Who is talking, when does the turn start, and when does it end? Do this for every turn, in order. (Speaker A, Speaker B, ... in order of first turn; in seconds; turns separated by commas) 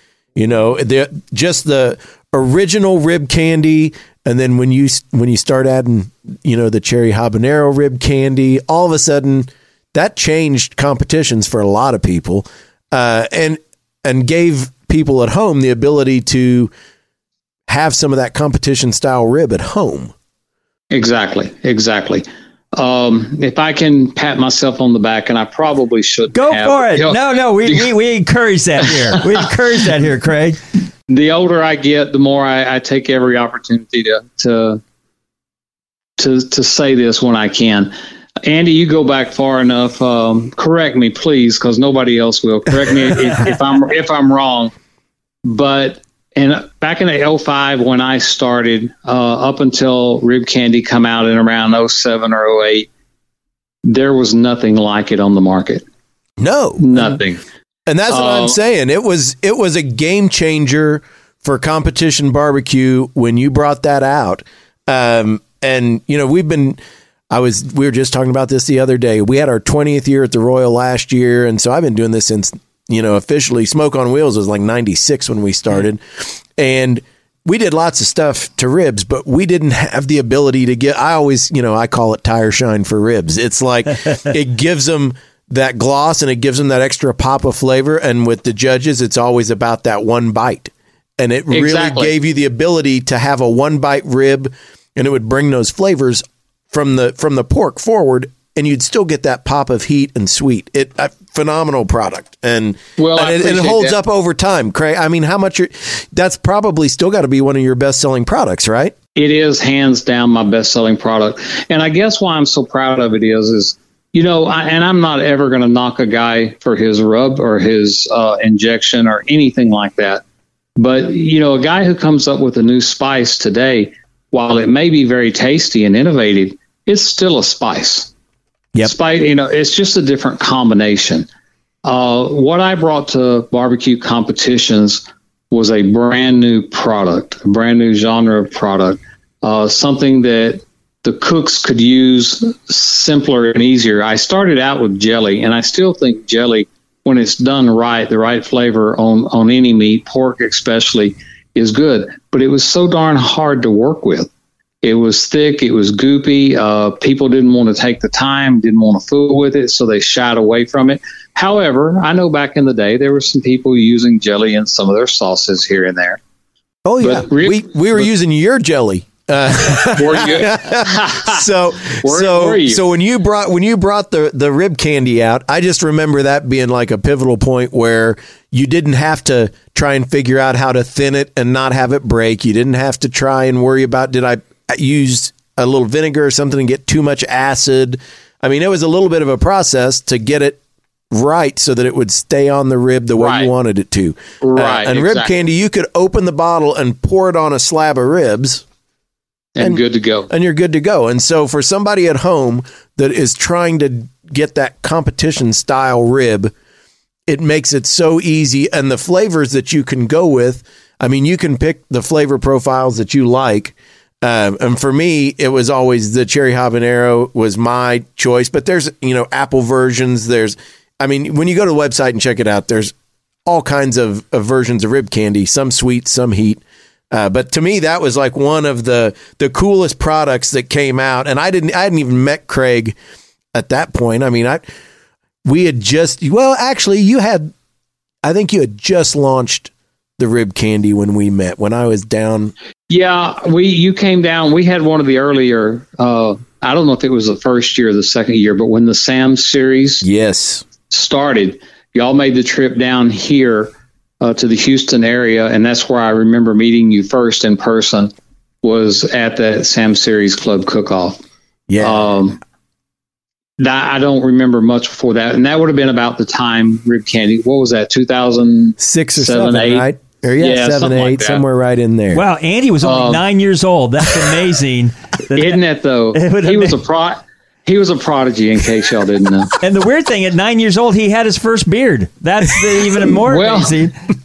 Speaker A: 0.3-16.7, Speaker A: 17.7-20.1, Speaker B: 20.9-27.9, Speaker C: 26.3-30.6, Speaker B: 28.9-29.2, Speaker B: 31.1-34.8, Speaker B: 36.2-37.9, Speaker B: 38.4-44.7, Speaker B: 45.4-52.9, Speaker B: 53.8-55.9, Speaker A: 56.4-57.2, Speaker B: 56.8-57.4, Speaker A: 57.9-66.8, Speaker B: 58.1-58.6, Speaker A: 67.3-108.9, Speaker B: 91.5-92.1, Speaker B: 103.0-104.0, Speaker B: 109.2-120.2, Speaker B: 120.8-128.1, Speaker B: 128.8-131.3, Speaker B: 131.8-154.3, Speaker B: 154.8-166.2, Speaker A: 166.8-190.6, Speaker B: 167.0-168.1, Speaker B: 169.7-172.8, Speaker A: 191.1-198.6, Speaker B: 193.2-193.5, Speaker B: 194.4-195.4, Speaker B: 199.6-200.3, Speaker A: 199.6-206.5, Speaker A: 207.3-222.9, Speaker A: 223.4-226.6, Speaker A: 227.1-233.0, Speaker A: 233.5-234.6, Speaker A: 235.4-237.5, Speaker A: 238.2-242.5, Speaker B: 242.9-250.0, Speaker A: 250.0-250.6, Speaker B: 250.9-258.1, Speaker B: 258.6-261.2, Speaker A: 261.7-262.1, Speaker B: 261.8-262.4, Speaker B: 263.6-271.4, Speaker A: 268.8-272.2, Speaker C: 272.1-275.6, Speaker B: 272.8-273.2, Speaker B: 275.4-279.5, Speaker C: 276.1-276.7, Speaker C: 279.6-283.9, Speaker B: 283.2-283.8